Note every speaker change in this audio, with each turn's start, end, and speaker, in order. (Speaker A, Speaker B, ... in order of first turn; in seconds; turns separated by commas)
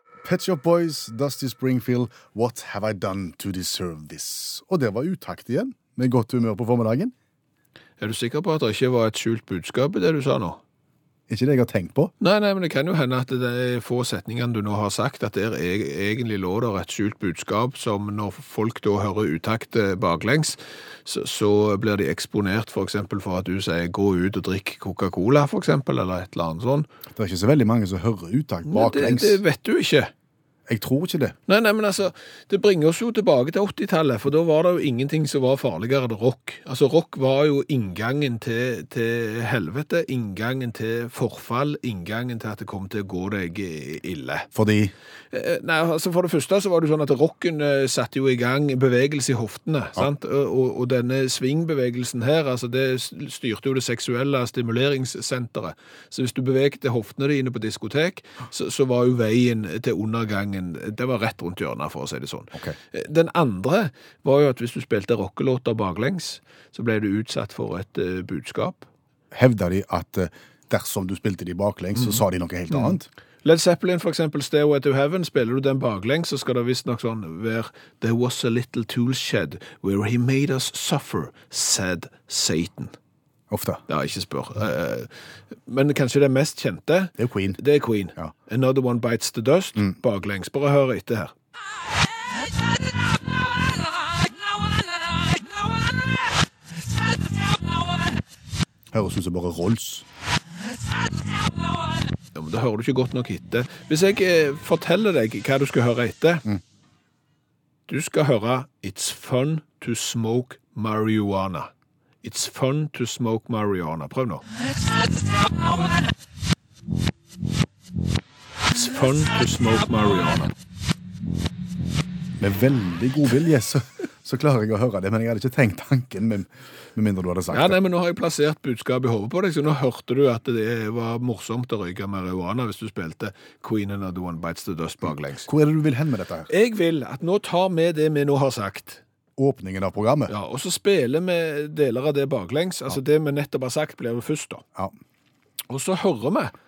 Speaker A: 0.2-7.1, Speaker B: 8.0-10.6, Speaker A: 11.3-12.1, Speaker B: 12.2-26.9, Speaker A: 27.1-29.4, Speaker B: 28.6-30.1, Speaker A: 30.7-31.4, Speaker B: 31.5-44.5, Speaker A: 44.5-44.9, Speaker B: 45.3-68.9, Speaker A: 69.3-73.1, Speaker B: 72.7-82.9, Speaker A: 83.5-83.8, Speaker B: 83.9-85.1, Speaker B: 85.7-91.3, Speaker A: 87.2-87.6, Speaker B: 94.1-95.7, Speaker A: 98.9-100.0, Speaker B: 102.3-106.4, Speaker B: 107.9-111.7, Speaker B: 112.2-114.5, Speaker B: 115.5-115.8, Speaker B: 118.7-120.5, Speaker A: 122.4-127.8, Speaker B: 127.5-135.5, Speaker A: 135.4-136.5, Speaker B: 136.5-139.0, Speaker A: 139.4-140.3, Speaker B: 140.3-144.6, Speaker B: 145.7-146.5